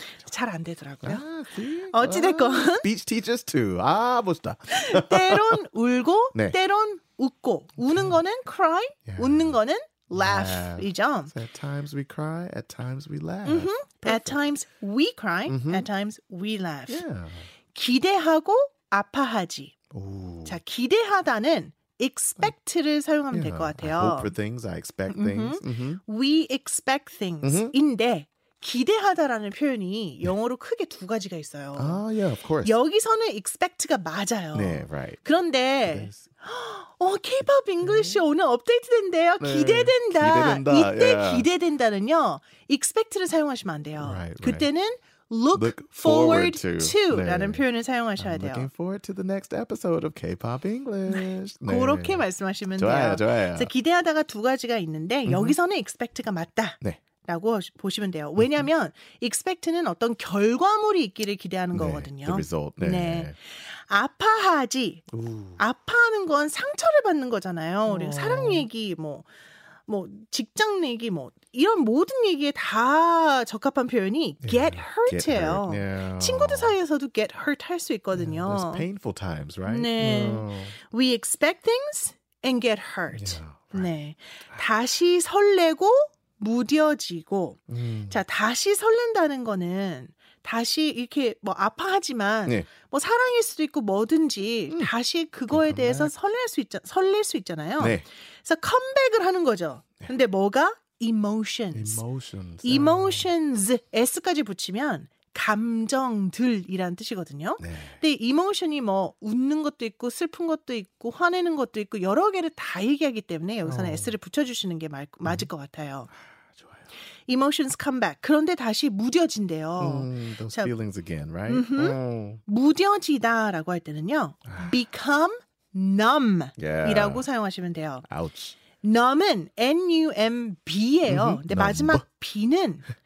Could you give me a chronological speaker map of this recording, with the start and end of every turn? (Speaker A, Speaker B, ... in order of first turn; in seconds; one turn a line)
Speaker A: 0.2-1.2
Speaker B: 1.0-5.6
Speaker A: 1.9-2.9
Speaker A: 4.7-11.3
Speaker B: 7.8-8.2
Speaker B: 9.1-9.6
Speaker B: 10.1-14.4
Speaker A: 13.4-17.0
Speaker B: 15.5-15.9
Speaker B: 16.9-17.4
Speaker A: 17.7-19.8
Speaker B: 19.9-20.6
Speaker A: 20.4-24.3
Speaker B: 23.3-26.0
Speaker A: 25.1-32.0
Speaker B: 27.4-27.7
Speaker B: 31.8-32.7
Speaker A: 32.6-48.7
Speaker B: 34.5-35.2
Speaker B: 35.8-36.3
Speaker B: 37.8-38.2
Speaker B: 39.4-41.5
Speaker B: 44.0-44.6
Speaker B: 45.5-47.6
Speaker B: 48.2-53.7
Speaker A: 51.1-65.0
Speaker B: 55.2-55.6
Speaker B: 58.4-58.6
Speaker B: 61.7-63.3
Speaker B: 65.1-65.6
Speaker A: 65.6-69.3
Speaker B: 67.9-68.7
Speaker A: 69.9-78.9
Speaker B: 74.4-76.8
Speaker B: 78.1-80.7
Speaker A: 79.6-102.0
Speaker B: 83.1-83.9
Speaker B: 87.7-88.2
Speaker B: 95.5-96.1
Speaker B: 97.8-98.0
Speaker B: 101.7-103.3
Speaker A: 102.6-116.1
Speaker B: 107.6-108.0
Speaker B: 113.6-114.2
Speaker A: 117.3-120.7
Speaker B: 119.8-122.4
Speaker A: 121.5-128.1
Speaker B: 124.5-124.7
Speaker B: 126.6-127.2
Speaker B: 128.1-128.6
Speaker A: 128.8-132.8
Speaker B: 131.1-132.0